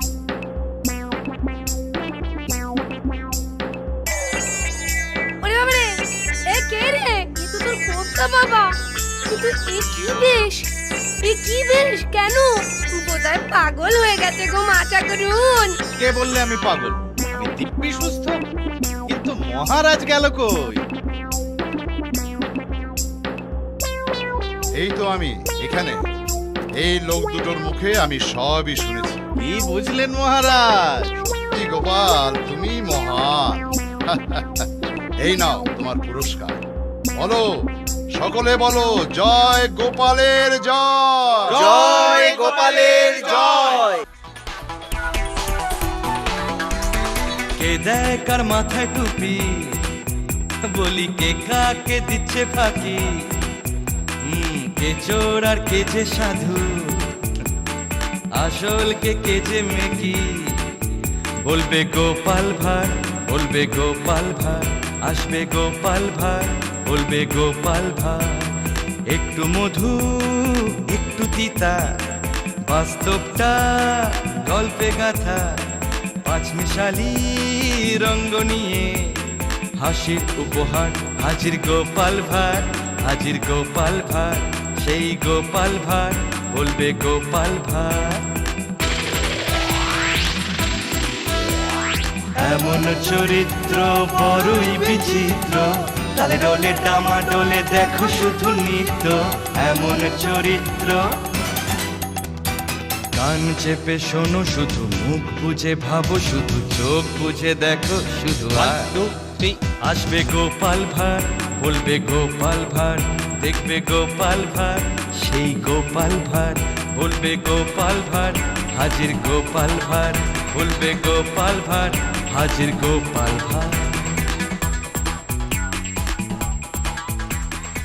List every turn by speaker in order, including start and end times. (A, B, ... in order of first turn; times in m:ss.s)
0:05.4-0:08.7 A
0:09.3-0:10.6 A
0:11.2-0:15.8 A
0:16.0-0:18.3 B
0:19.1-0:20.8 B
0:24.8-0:26.0 C
0:26.8-0:29.2 C
0:29.4-0:31.1 B
0:31.2-0:34.7 C
0:35.2-0:36.6 C
0:37.2-0:37.5 C
0:38.2-0:41.7 C
0:41.6-0:43.8 D
0:41.9-0:42.2 B
0:47.6-0:49.9 E
0:50.6-0:53.1 E
0:54.2-0:57.1 E
0:58.4-1:00.6 E
1:01.4-1:08.5 E
1:09.1-1:11.8 E
1:12.6-1:15.5 E
1:16.2-1:28.2 E
1:32.4-1:41.0 E
1:43.1-1:49.0 E
1:48.6-1:49.5 B
1:49.8-2:04.0 E